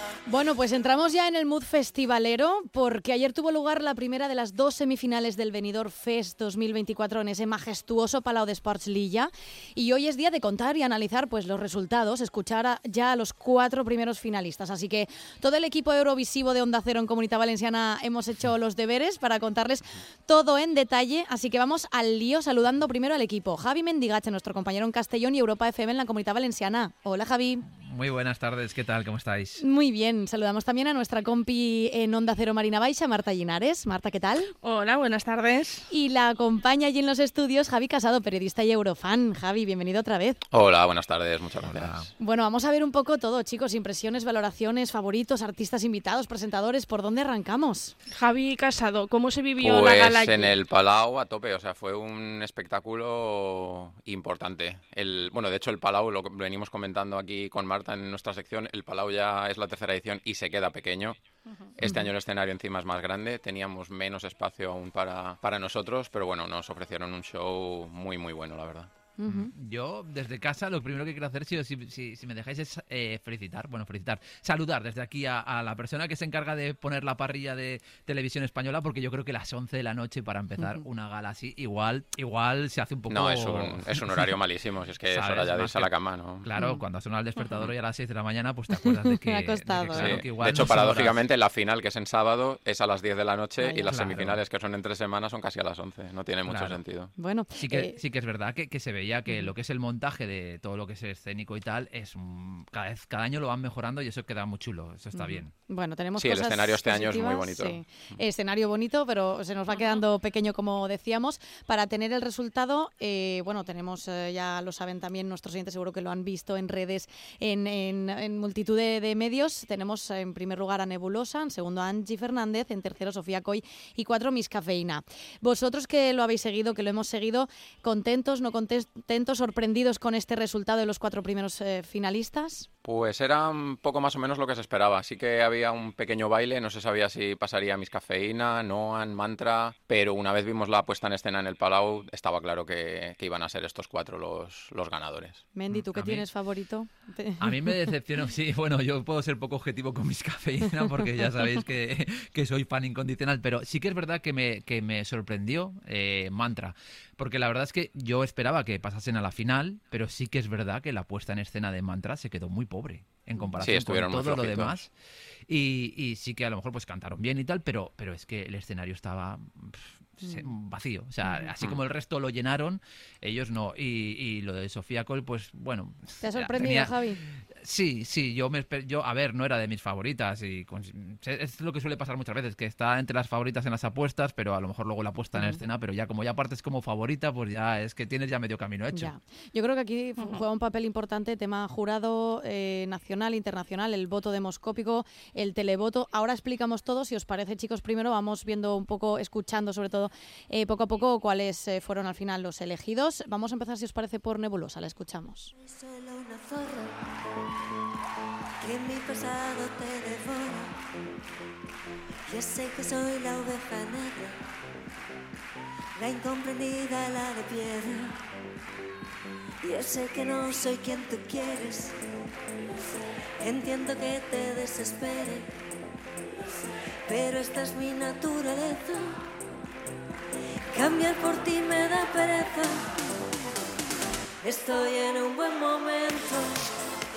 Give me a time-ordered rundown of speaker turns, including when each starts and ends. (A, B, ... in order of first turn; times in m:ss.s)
0:00.3-0:27.7 A
0:27.8-0:29.6 B
0:29.6-0:34.5 A
0:34.6-0:35.9 C
0:35.9-0:40.4 A
0:40.5-0:42.1 D
0:41.6-0:42.1 B
0:42.2-0:47.9 A
0:48.1-0:50.5 C
0:49.6-1:01.2 D
1:01.8-1:08.9 D
1:01.8-1:02.1 A
1:09.2-1:09.5 A
1:09.3-1:24.3 B
1:20.6-1:20.9 A
1:23.1-1:26.5 D
1:25.1-1:31.2 B
1:26.6-1:26.8 A
1:28.8-1:30.2 A
1:29.9-1:37.1 D
1:33.6-1:33.9 A
1:33.9-1:34.4 B
1:36.5-1:36.8 B
1:37.2-1:38.0 A
1:37.6-1:45.5 B
1:39.3-1:39.5 A
1:45.1-2:12.7 A
1:46.2-1:48.1 D
2:12.8-2:25.4 D
2:25.5-2:27.6 A
2:25.7-2:26.3 B
2:27.4-2:44.9 B
2:43.4-2:43.7 A
2:43.6-2:44.8 D
2:45.5-3:09.1 B
2:50.2-2:50.5 A
2:56.2-2:57.2 A
3:05.4-3:05.6 A
3:08.9-3:25.5 A
3:25.7-3:26.9 E
3:28.6-3:30.7 E
3:32.3-3:34.4 E
3:36.0-3:38.2 E
3:39.6-3:42.0 E
3:43.4-3:45.5 E
3:47.1-3:49.2 E
3:50.7-3:52.9 E
3:54.4-3:56.7 E